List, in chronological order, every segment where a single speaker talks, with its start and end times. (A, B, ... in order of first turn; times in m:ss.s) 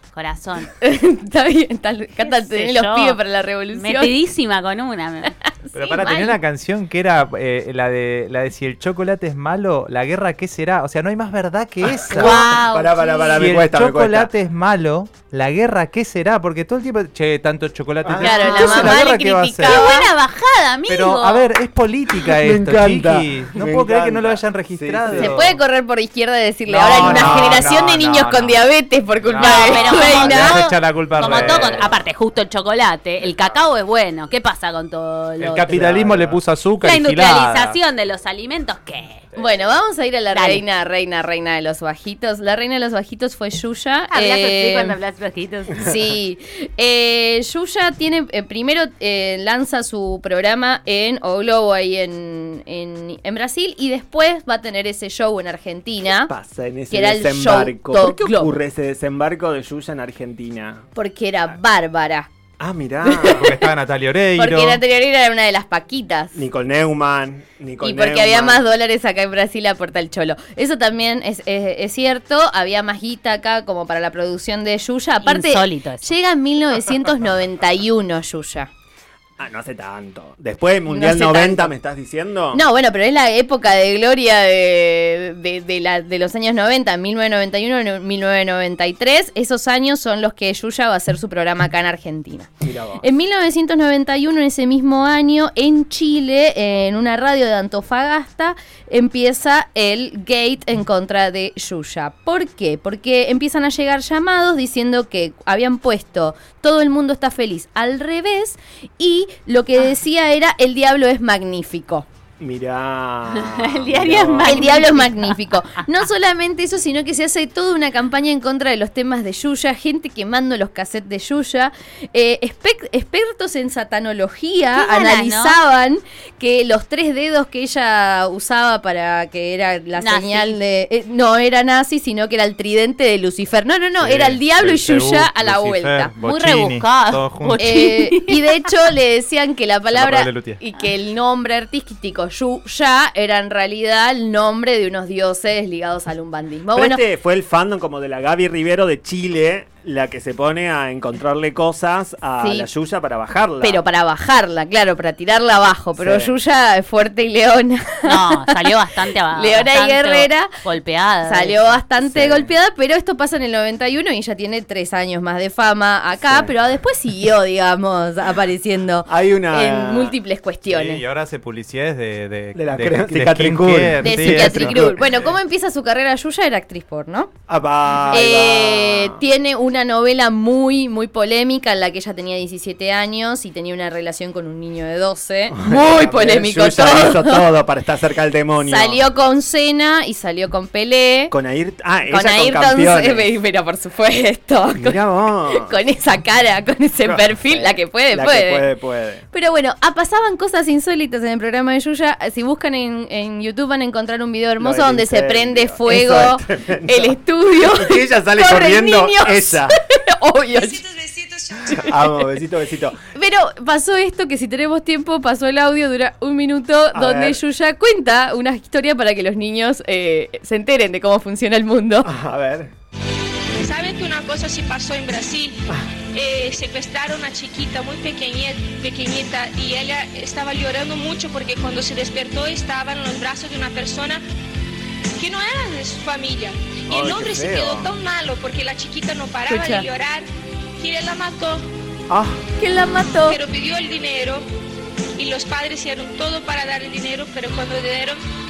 0:00.1-0:00.7 A
0:00.8-0:04.1 B
0:02.2-0:03.2 A
0:03.7-0:05.3 A
0:05.4-0:06.4 B
0:05.7-0:12.5 C
0:12.1-0:14.3 D
0:12.1-0:13.5 A
0:13.3-0:19.9 C
0:18.0-0:19.0 D
0:18.2-0:20.1 B
0:19.6-0:21.5 A
0:20.9-0:25.4 C
0:22.2-0:25.6 D
0:25.1-0:30.6 B
0:26.7-0:28.6 C
0:26.9-0:27.8 D
0:29.2-0:32.0 C
0:29.4-0:35.8 A
0:31.2-0:31.9 D
0:35.4-0:37.8 C
0:35.7-0:36.4 D
0:36.8-0:39.2 A
0:39.4-0:45.0 B
0:40.3-0:40.6 A
0:44.1-0:45.8 A
0:45.8-0:56.3 B
0:56.3-1:00.9 D
0:56.9-0:58.5 B
1:00.9-1:02.3 B
1:02.6-1:03.5 D
1:03.0-1:03.7 B
1:03.3-1:04.8 C
1:04.4-1:06.4 B
1:06.3-1:08.6 D
1:07.8-1:18.7 B
1:15.2-1:16.1 A
1:19.4-1:22.6 D
1:20.9-1:21.7 B
1:22.5-1:52.1 B
1:32.6-1:33.0 D
1:52.4-1:54.7 D
1:53.3-1:55.4 A
1:54.4-2:16.1 B
2:04.7-2:05.6 A
2:10.0-2:10.6 A
2:14.0-2:17.8 C
2:16.2-2:18.6 A
2:17.6-2:27.0 B
2:19.9-2:20.6 C
2:26.7-2:33.8 D
2:32.4-2:32.7 B
2:33.6-2:40.6 B
2:36.0-2:36.3 D
2:38.0-2:41.7 A
2:41.2-2:51.0 B
2:42.0-2:42.5 D
2:46.2-2:46.5 D
2:49.0-2:50.2 D
2:50.7-2:55.0 C
2:52.5-2:55.1 D
2:54.0-2:57.3 B
2:57.5-2:59.2 D
2:58.1-3:07.6 B
3:05.5-3:09.0 D
3:08.6-3:11.3 B
3:11.3-3:13.3 D
3:12.1-3:18.7 B
3:14.7-3:15.7 D
3:17.0-3:19.2 D
3:19.3-3:32.2 B
3:24.6-3:29.7 D
3:31.6-3:33.0 D
3:33.0-3:42.1 B
3:36.9-3:37.4 D
3:42.0-3:42.7 D
3:43.5-3:45.6 E
3:46.1-3:54.2 E
3:55.2-4:00.2 E
3:56.9-3:57.9 D
3:59.5-3:59.8 B
4:00.8-4:01.6 E
4:02.1-4:02.4 D
4:02.6-4:03.4 B
4:03.1-4:04.4 E
4:05.2-4:08.2 E